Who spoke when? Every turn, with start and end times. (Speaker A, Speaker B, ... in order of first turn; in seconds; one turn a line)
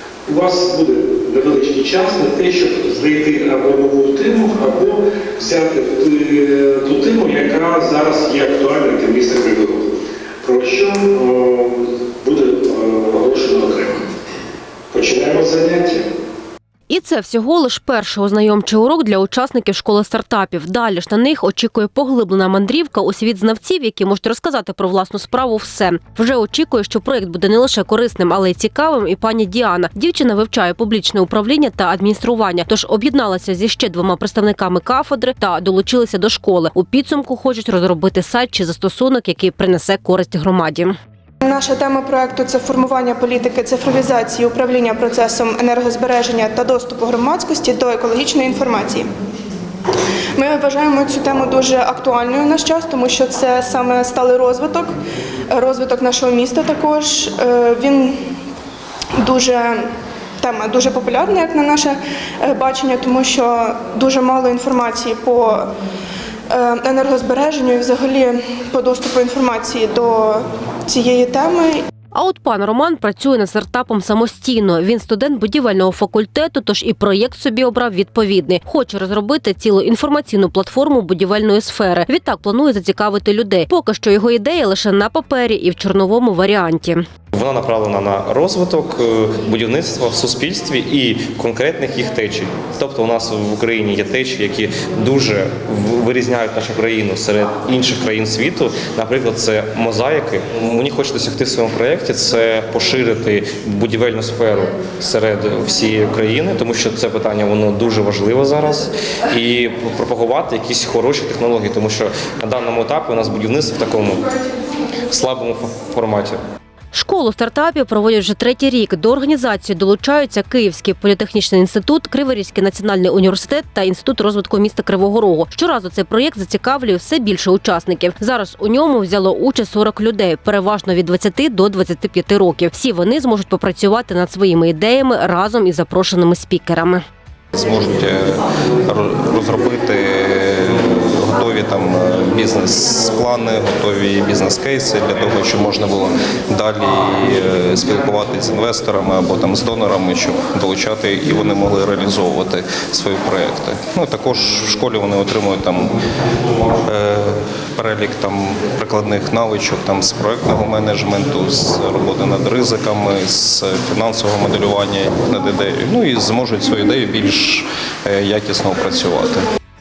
Speaker A: 0.2-14.0
Speaker A: 14.9-16.1
Speaker B: 16.9-41.0
Speaker C: 41.4-49.1
Speaker C: 50.4-54.9
Speaker C: 55.5-58.1
Speaker C: 59.2-59.8
Speaker C: 60.4-65.7
Speaker C: 66.5-71.8
Speaker B: 72.1-87.0
Speaker D: 87.3-114.3
Speaker D: 115.1-116.4
Speaker B: 116.9-137.0
Speaker E: 137.5-155.9
Speaker E: 156.8-169.4